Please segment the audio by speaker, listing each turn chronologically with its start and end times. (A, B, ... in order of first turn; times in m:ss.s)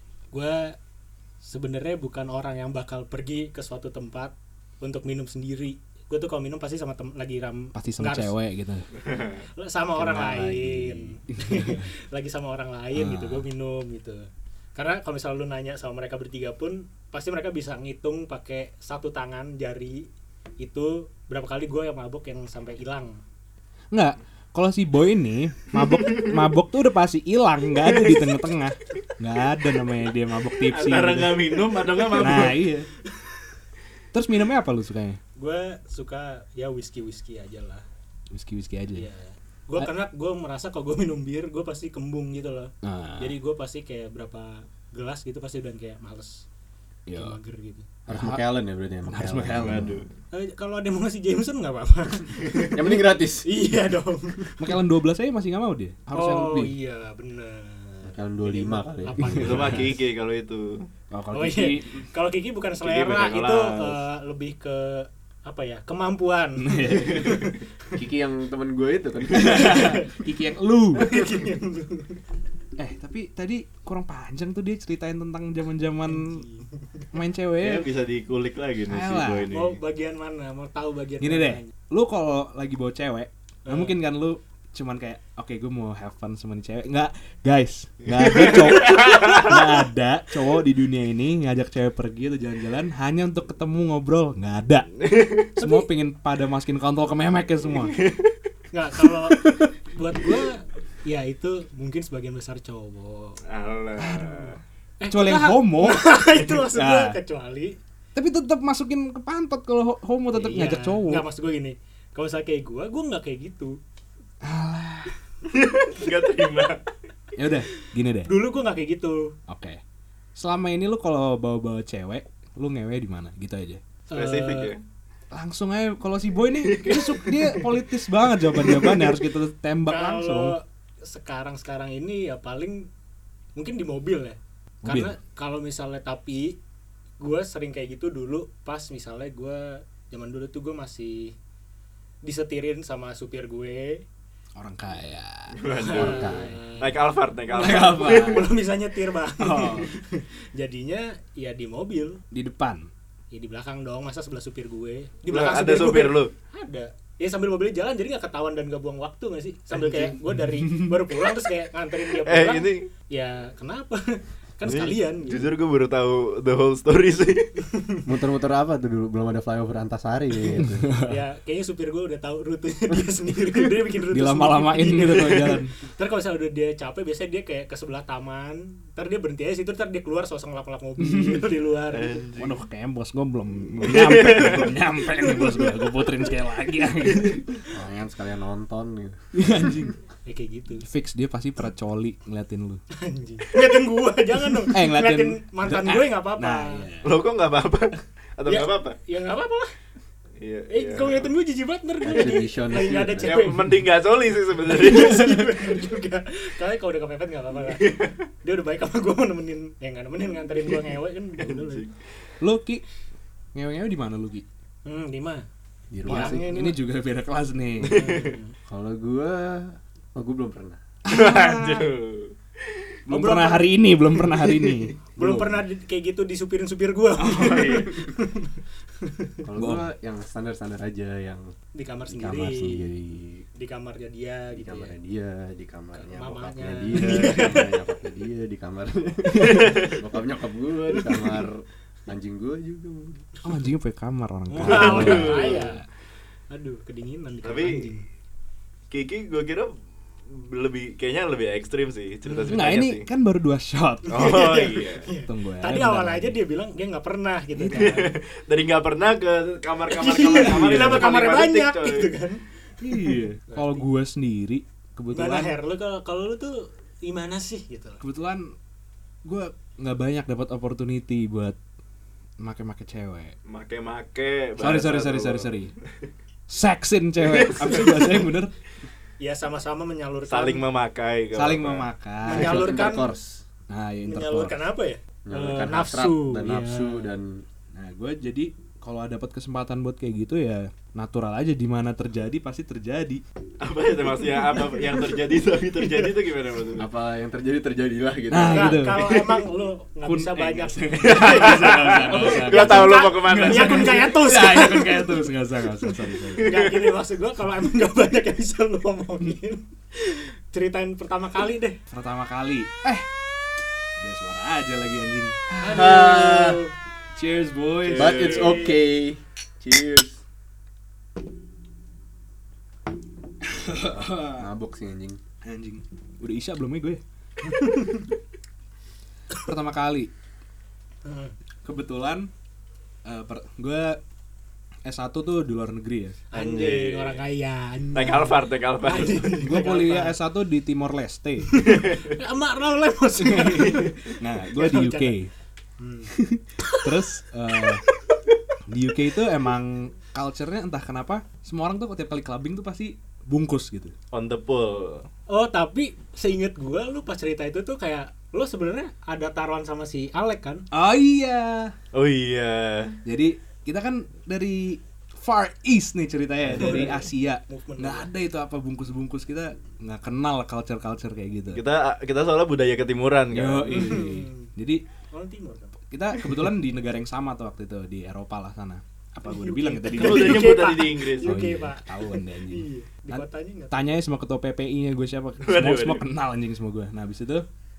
0:00.3-0:00.8 A
0:01.4-0:08.3 A
0:07.7-0:08.9 B
0:09.0-0:09.4 C
0:09.6-0:20.1 A
0:10.0-0:11.9 B
0:12.9-0:13.5 B
0:20.6-0:23.2 A
0:23.9-0:31.5 B
0:25.9-0:26.4 C
0:27.9-0:28.3 C
0:30.6-0:32.6 C
0:32.0-0:32.4 A
0:32.1-0:32.9 B
0:33.1-0:33.4 A
0:34.1-0:35.2 B
0:35.4-0:37.8 A
0:38.3-0:39.1 B
0:39.0-0:46.5 A
0:42.8-0:43.4 B
0:47.1-0:47.4 B
0:47.1-0:47.9 A
0:48.1-0:50.0 D
0:48.1-0:48.5 B
0:49.1-0:50.1 B
0:49.6-0:50.1 C
0:50.3-0:54.8 A
0:52.7-0:53.5 D
0:54.6-0:56.7 B
0:56.1-1:00.0 A
0:58.0-0:59.8 D
0:59.2-0:59.8 B
0:59.4-1:00.9 C
1:01.1-1:02.1 B
1:01.3-1:07.6 A
1:02.8-1:04.0 C
1:06.6-1:07.5 B
1:08.0-1:09.9 D
1:09.3-1:11.1 B
1:09.6-1:10.2 A
1:11.0-1:12.2 A
1:12.8-1:16.4 B
1:16.1-1:17.1 A
1:17.1-1:17.9 B
1:17.6-1:19.8 C
1:18.9-1:19.5 B
1:19.5-1:21.7 A
1:21.2-1:34.9 B
1:23.6-1:24.0 A
1:28.2-1:29.6 C
1:35.0-1:35.5 C
1:35.6-1:38.0 B
1:35.6-1:35.9 A
1:37.7-1:38.4 C
1:38.7-1:43.4 A
1:43.5-1:44.6 C
1:44.0-1:44.5 B
1:45.0-1:47.8 A
1:45.1-1:47.2 B
1:48.2-1:51.2 B
1:50.3-1:53.8 A
1:54.4-1:55.1 B
1:55.5-1:56.8 C
1:57.4-1:58.3 B
1:58.3-1:59.4 A
1:59.5-1:59.8 B
2:00.4-2:03.8 B
2:04.1-2:04.7 A
2:04.1-2:04.8 C
2:05.3-2:10.6 B
2:06.6-2:07.7 C
2:08.6-2:09.1 C
2:09.9-2:12.9 A
2:13.6-2:16.6 A
2:14.8-2:15.1 B
2:17.2-2:21.4 A
2:22.2-2:24.0 A
2:24.6-2:25.6 B
2:25.6-2:28.5 C
2:25.7-2:27.0 A
2:25.9-2:26.6 D
2:27.5-2:28.5 B
2:27.7-2:32.2 A
2:29.4-2:29.9 B
2:32.3-2:32.9 B
2:33.3-2:45.5 A
2:35.3-2:36.3 C
2:39.7-2:41.1 B
2:42.2-2:42.9 C
2:44.6-2:47.5 C
2:47.7-2:48.0 A
2:48.1-2:50.9 D
2:50.6-2:51.2 B
2:51.1-3:02.2 A
2:54.1-2:55.7 B
3:01.0-3:01.5 B
3:01.9-3:02.6 C
3:02.4-3:07.6 B
3:03.8-3:04.7 C
3:07.7-3:09.2 D
3:09.3-3:10.0 B
3:10.3-3:10.9 A
3:10.8-3:12.8 B
3:12.9-3:16.9 A
3:14.7-3:17.1 B
3:17.0-3:19.0 C
3:18.5-3:19.7 A
3:20.4-3:21.3 C
3:20.7-3:23.8 A
3:22.0-3:23.6 D
3:23.2-3:25.7 C
3:24.7-3:31.8 A
3:27.7-3:28.2 C
3:31.4-3:31.9 C
3:32.4-3:32.8 B
3:33.5-3:34.4 B
3:34.9-3:35.4 A
3:35.9-3:36.5 D
3:36.0-3:36.8 A
3:36.1-3:38.0 B
3:37.8-3:38.4 C
3:37.9-3:38.5 A
3:38.7-3:40.8 D
3:41.0-3:41.9 B
3:41.1-3:43.0 C
3:43.1-3:45.0 B
3:43.1-3:43.7 A
3:44.3-3:44.8 C
3:45.2-3:49.4 A
3:45.2-3:45.6 D
3:47.2-3:48.1 B
3:49.4-3:51.5 D
3:49.6-3:49.9 B
3:51.8-3:52.8 A
3:52.1-3:53.5 D
3:53.6-3:54.9 A
3:54.5-4:03.2 D
3:56.0-3:57.8 A
3:59.4-4:00.0 C
4:00.9-4:01.4 A
4:03.4-4:05.8 B
4:04.5-4:05.8 A
4:04.6-4:05.7 C
4:06.5-4:08.0 A
4:07.4-4:07.9 C
4:08.9-4:09.7 C
4:10.3-4:13.1 C
4:12.3-4:12.6 A
4:12.5-4:14.6 B
4:14.1-4:18.2 A
4:14.1-4:15.1 C
4:15.2-4:16.4 B
4:17.6-4:22.1 C
4:19.9-4:23.8 A
4:20.3-4:21.1 B
4:22.8-4:25.6 B
4:25.1-4:28.0 A
4:28.0-4:28.5 B
4:29.2-4:31.6 B
4:32.4-4:33.4 B
4:33.5-4:36.1 C
4:34.6-4:35.7 B
4:36.5-4:38.5 B
4:37.2-4:38.3 C
4:39.2-4:40.6 A
4:40.3-4:41.9 C
4:41.4-4:42.7 B
4:42.3-4:43.1 A
4:42.3-4:43.5 D
4:43.7-4:44.6 B
4:44.1-4:47.1 A
4:45.2-4:47.4 D
4:47.7-4:53.2 B
4:53.6-4:56.9 C
4:56.8-4:59.0 D
4:58.3-4:59.2 B
4:58.5-5:05.3 A
4:59.1-4:59.4 C
5:00.1-5:06.6 B
5:01.0-5:04.1 C
5:05.8-5:11.8 A
5:06.4-5:07.0 C
5:11.9-5:13.1 B
5:14.0-5:16.1 B
5:15.6-5:16.7 A
5:15.7-5:16.6 D
5:17.2-5:18.3 B
5:17.8-5:18.6 C
5:17.9-5:20.2 D
5:18.3-5:18.8 A
5:23.4-5:24.5 B
5:23.9-5:25.2 D
5:25.4-5:27.0 B
5:27.4-5:28.1 A
5:29.4-5:30.1 B
5:31.0-5:31.3 A
5:31.6-5:32.3 B
5:33.0-5:34.0 B
5:34.8-5:36.2 B
5:36.3-5:40.2 A
5:36.3-5:37.2 C
5:38.0-5:39.3 C
5:39.3-5:41.7 B
5:41.5-5:45.2 A
5:41.6-5:42.1 C
5:43.2-5:45.3 B
5:43.6-5:43.9 C
5:45.8-5:47.9 A
5:46.1-5:47.8 B
5:48.7-5:53.9 B
5:54.1-5:55.0 C
5:55.3-6:00.7 A
6:00.7-6:01.8 B
6:01.9-6:03.0 C
6:03.0-6:11.6 B
6:06.5-6:07.0 C
6:06.5-6:08.1 A
6:11.5-6:14.0 C
6:13.3-6:14.8 B
6:13.7-6:14.5 A
6:15.1-6:15.8 A
6:15.9-6:20.6 B
6:19.2-6:23.9 A
6:20.0-6:21.3 C
6:21.2-6:27.5 B
6:25.4-6:26.0 C